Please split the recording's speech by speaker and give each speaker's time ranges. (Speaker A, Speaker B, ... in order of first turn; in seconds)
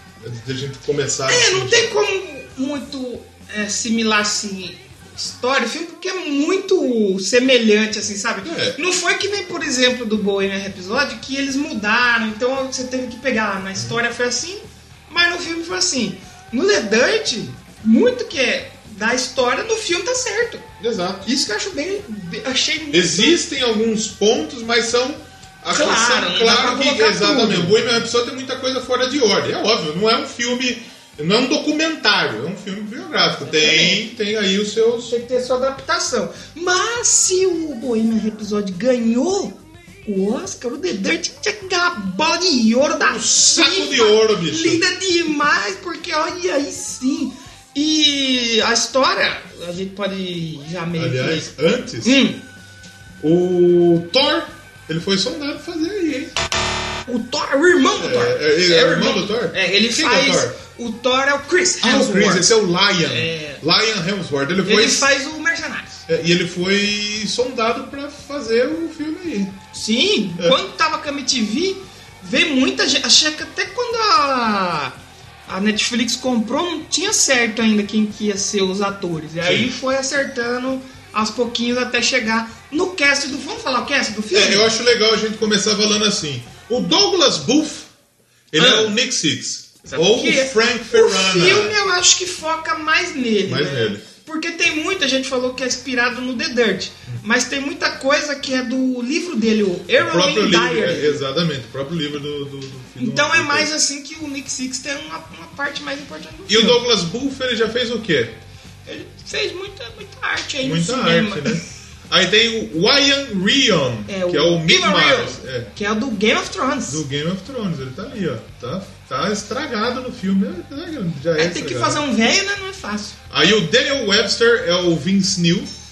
Speaker A: 0.2-1.9, 8.4-8.8, 20.8-21.3, 22.9-35.1, 43.0-44.8, 51.0-52.2, 53.2-56.3, 58.0-60.5, 61.8-65.1, 66.1-69.5, 79.4-79.7, 84.3-87.9, 88.5-91.8, 93.5-94.0, 100.0-103.7, 106.5-108.3, 110.6-115.7, 116.9-122.0, 123.3-125.7
Speaker B: 1.3-20.6, 21.2-23.4, 25.7-27.8, 33.4-34.0, 35.1-51.5, 52.0-52.4, 57.0-63.6, 64.6-66.0, 69.7-75.0, 75.5-84.7, 88.5-88.9, 89.8-101.2, 103.0-106.8, 108.8-111.6, 114.1-117.0, 121.4-123.2